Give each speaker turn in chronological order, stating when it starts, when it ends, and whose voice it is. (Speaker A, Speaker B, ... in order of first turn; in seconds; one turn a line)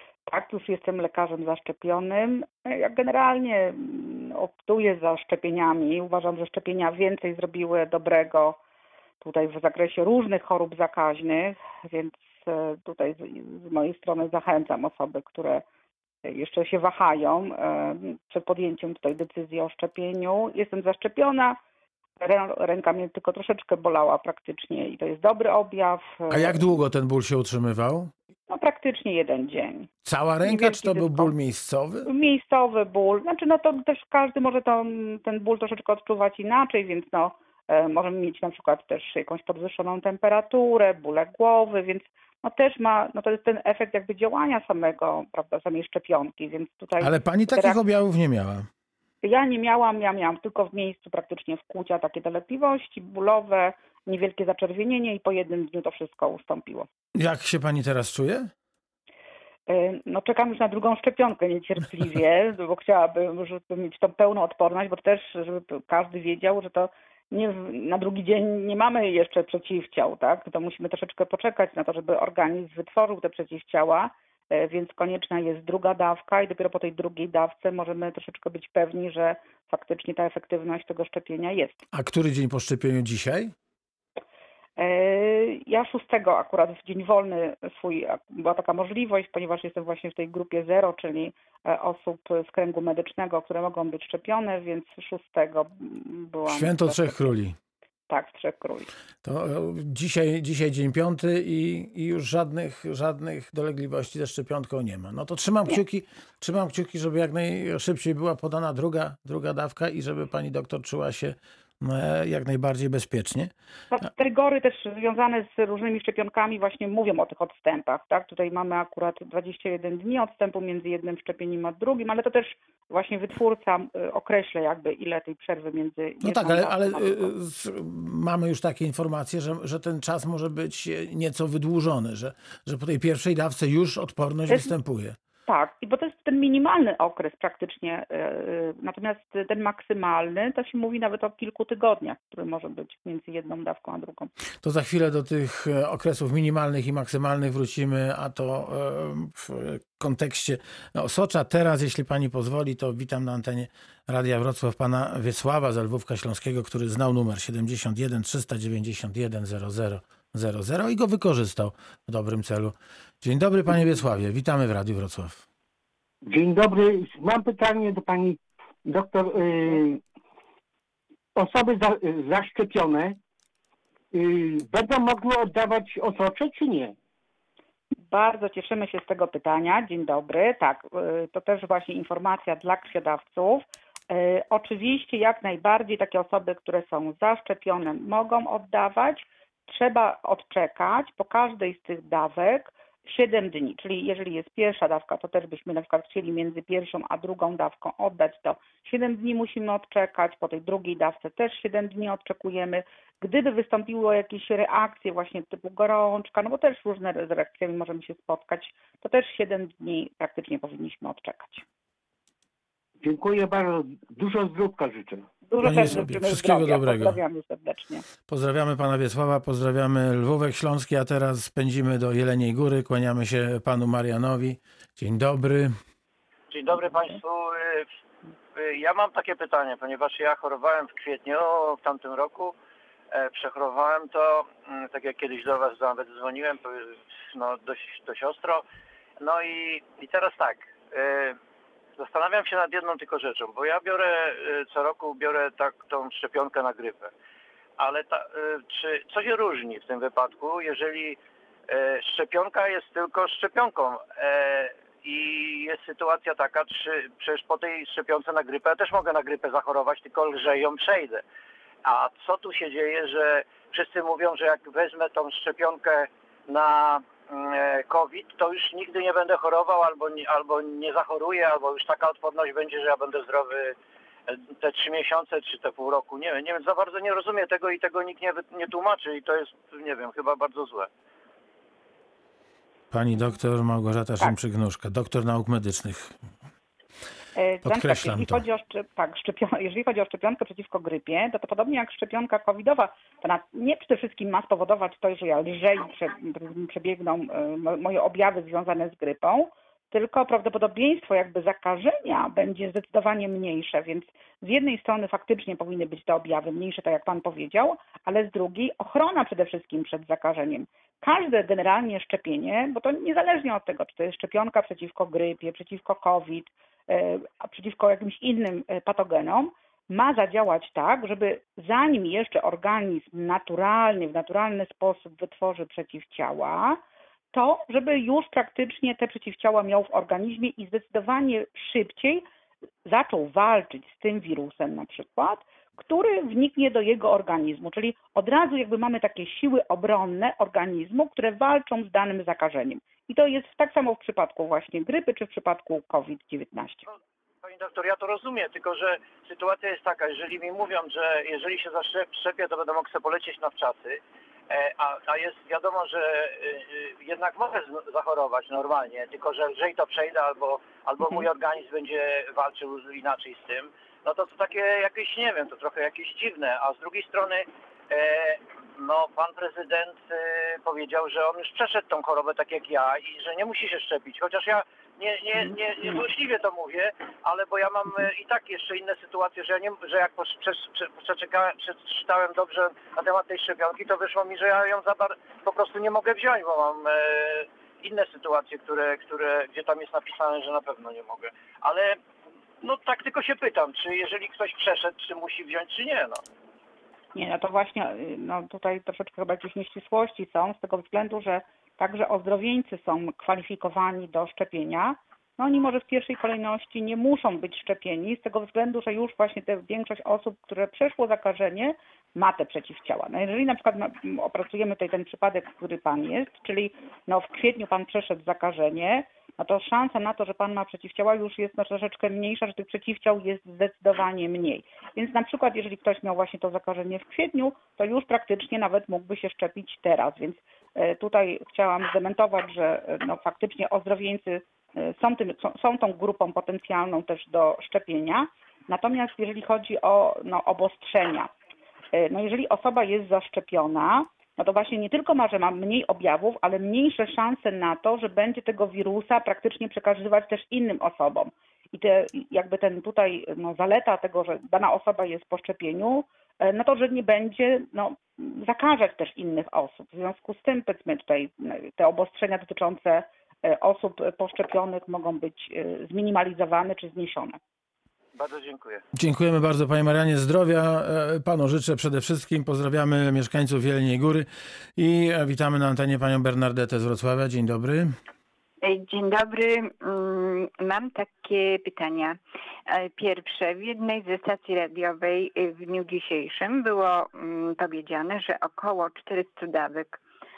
Speaker A: 0.3-8.6
Speaker A: 9.2-15.6
Speaker A: 16.2-21.6
Speaker A: 22.2-26.6
Speaker B: 26.3-28.1
Speaker A: 28.5-29.9
Speaker B: 30.0-32.1
Speaker A: 30.4-31.3
Speaker A: 32.0-47.8
Speaker B: 47.0-48.7
Speaker A: 49.2-56.9
Speaker B: 57.2-58.5
Speaker A: 59.7-81.8
Speaker B: 81.9-83.5
Speaker A: 84.8-97.2
Speaker B: 96.5-97.6
Speaker A: 98.1-98.9
Speaker B: 99.2-113.5
Speaker A: 113.9-127.3
Speaker B: 126.2-135.2
Speaker A: 135.4-144.3
Speaker B: 144.6-165.4
Speaker C: 166.2-170.0
Speaker C: 171.3-173.2
Speaker C: 174.1-176.9
Speaker A: 178.1-211.6
Speaker C: 213.0-215.2
Speaker A: 215.5-218.1
Speaker B: 215.6-217.2
Speaker B: 218.3-225.8
Speaker D: 226.5-227.9
Speaker D: 228.5-232.5
Speaker D: 233.1-238.6
Speaker D: 239.2-241.4
Speaker D: 242.0-247.1
Speaker D: 247.8-261.2
Speaker D: 261.8-273.8
Speaker D: 274.3-280.9
Speaker B: 282.9-286.2
Speaker A: 287.4-326.8
Speaker B: 287.6-288.4
Speaker A: 327.3-332.2
Speaker A: 332.9-346.9
Speaker D: 347.4-392.0
Speaker D: 392.6-396.2
Speaker A: 397.1-441.3
Speaker A: 441.9-467.4
Speaker D: 468.1-468.8
Speaker B: 468.9-477.9
Speaker E: 478.6-490.0